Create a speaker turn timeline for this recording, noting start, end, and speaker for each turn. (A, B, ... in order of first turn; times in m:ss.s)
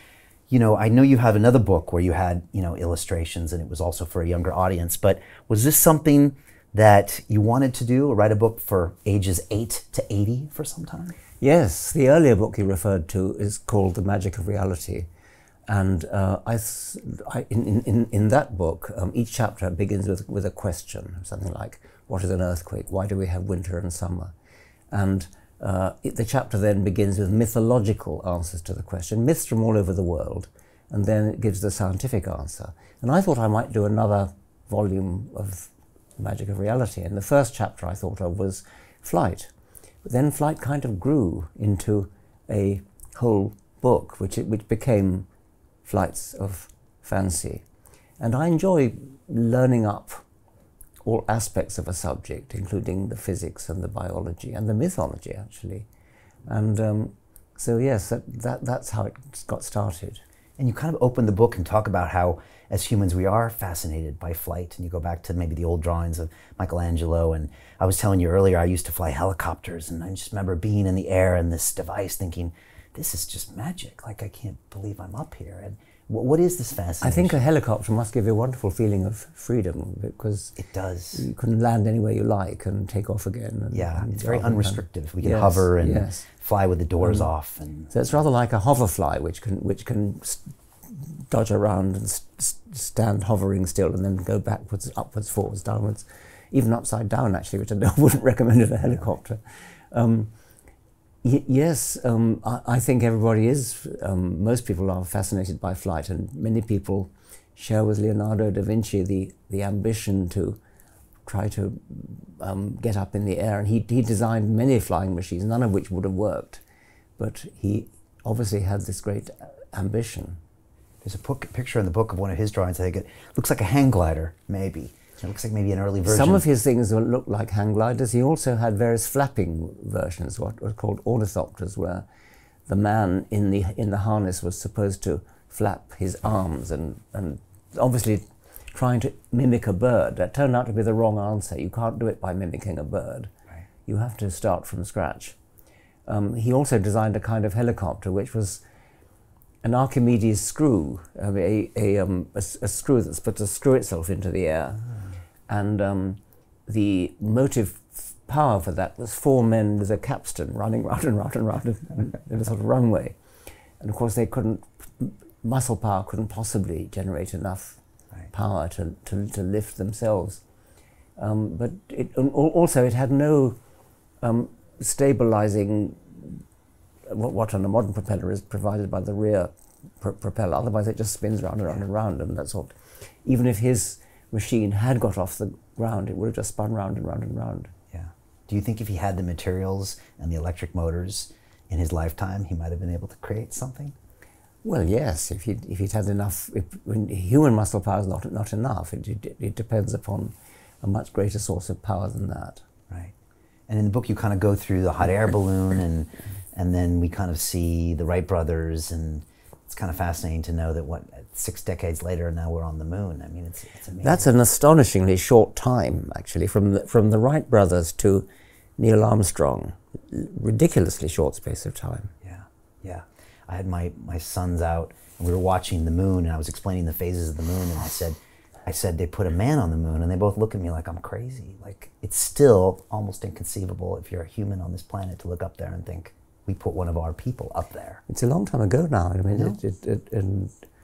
0:00.5-0:11.1 A
0:11.4-0:15.1 B
0:15.7-0:24.3 B
0:24.9-0:39.5 B
0:40.0-0:45.3 B
0:45.8-0:47.6 B
0:48.2-0:50.2 B
0:51.0-0:55.9 B
0:56.5-1:00.2 B
1:00.6-1:17.4 A
1:17.0-1:20.6 B
1:20.6-1:21.3 A
1:21.1-1:26.3 B
1:23.7-1:28.1 A
1:27.0-1:27.3 B
1:27.9-1:40.3 B
1:41.2-1:50.6 B
1:51.2-1:56.6 B
1:57.2-2:00.4 B
2:01.0-2:06.5 A
2:06.0-2:12.0 B
2:12.7-2:23.3 B
2:23.8-2:25.4 B
2:26.0-2:28.6 B
2:29.6-2:34.8 B
2:35.5-2:43.2 B
2:43.8-2:47.8 B
2:48.3-2:50.4 B
2:51.2-2:53.6 B
2:54.2-2:56.4 B
2:57.0-3:07.7 B
3:07.9-3:13.9 A
3:14.6-3:22.6 B
3:22.9-3:23.1 A
3:23.7-3:34.3 A
3:34.0-3:42.1 B
3:42.2-3:58.0 A
3:58.1-4:00.5 B
3:59.3-3:59.6 A